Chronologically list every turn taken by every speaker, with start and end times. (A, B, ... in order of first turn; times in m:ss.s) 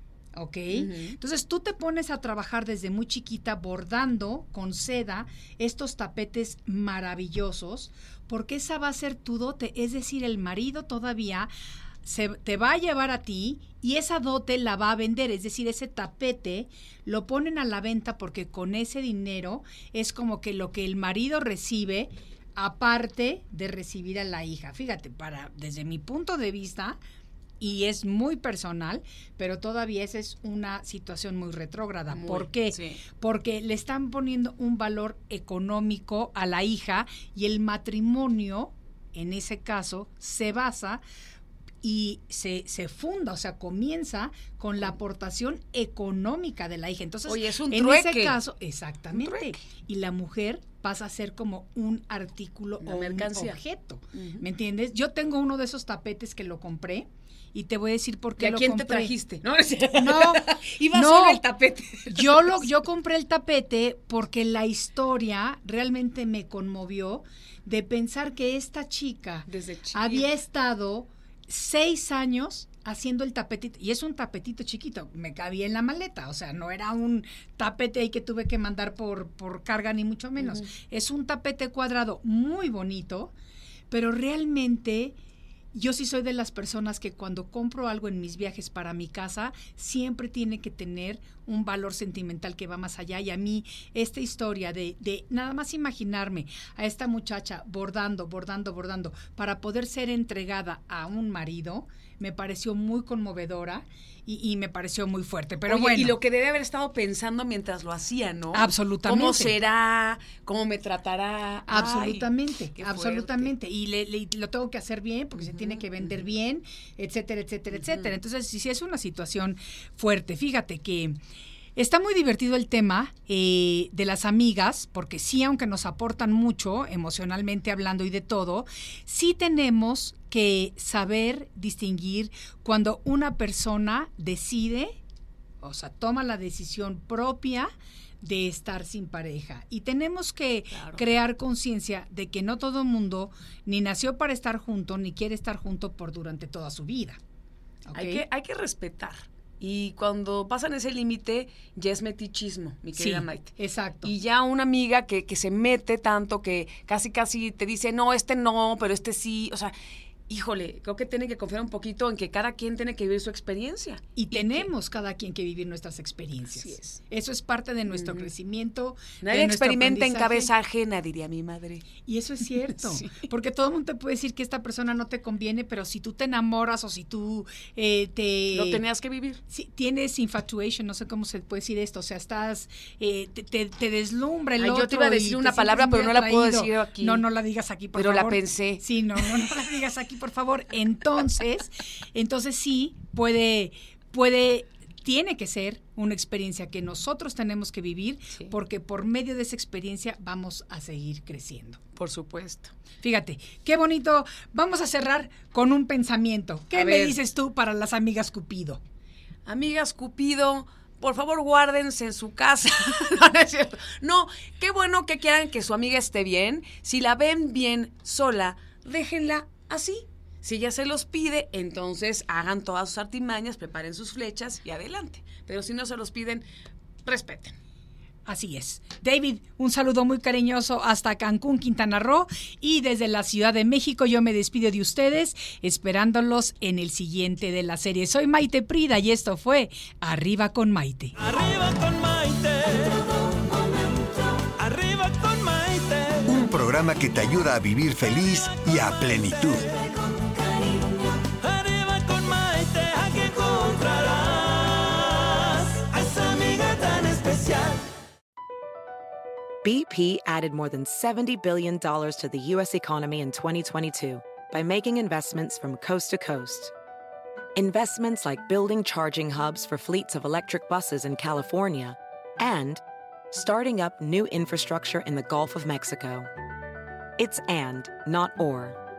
0:00.4-0:11.5 A
0:00.7-0:01.2 B
0:12.0-0:27.0 A
0:27.6-0:41.0 A
0:32.1-0:33.0 B
0:41.8-0:59.1 A
0:47.3-0:48.4 B
0:49.1-0:49.5 B
0:52.8-0:53.6 B
0:54.1-0:54.4 B
0:58.4-1:02.7 B
1:00.0-1:01.4 A
1:02.1-1:23.3 A
1:09.5-1:10.3 B
1:20.4-1:20.7 B
1:23.9-1:25.2 A
1:25.7-1:46.2 A
1:45.7-1:53.5 B
1:48.5-1:49.6 A
1:51.7-2:01.2 A
1:55.4-1:56.1 B
1:57.7-1:58.1 B
2:01.8-2:15.0 A
2:15.6-2:27.2 A
2:20.7-2:21.0 B
2:27.9-2:28.2 A
2:27.9-2:39.8 B
2:33.0-2:34.1 A
2:40.3-2:44.7 B
2:44.2-2:50.5 A
2:46.6-2:47.0 B
2:47.9-2:48.3 B
2:49.2-2:51.9 B
2:52.0-2:58.8 A
2:52.7-2:53.2 B
2:58.5-2:59.4 B
2:59.5-3:21.8 A
3:04.6-3:07.3 B
3:08.0-3:09.4 B
3:22.0-3:22.7 B
3:23.0-3:28.8 A
3:26.7-3:27.2 B
3:29.5-3:46.4 B
3:47.0-3:47.6 B
3:48.3-4:01.2 A
4:01.2-4:06.3 C
4:06.3-4:09.7 D
4:08.5-4:17.9 C
4:19.6-4:26.7 E
4:27.6-4:36.3 E
4:37.2-4:38.8 E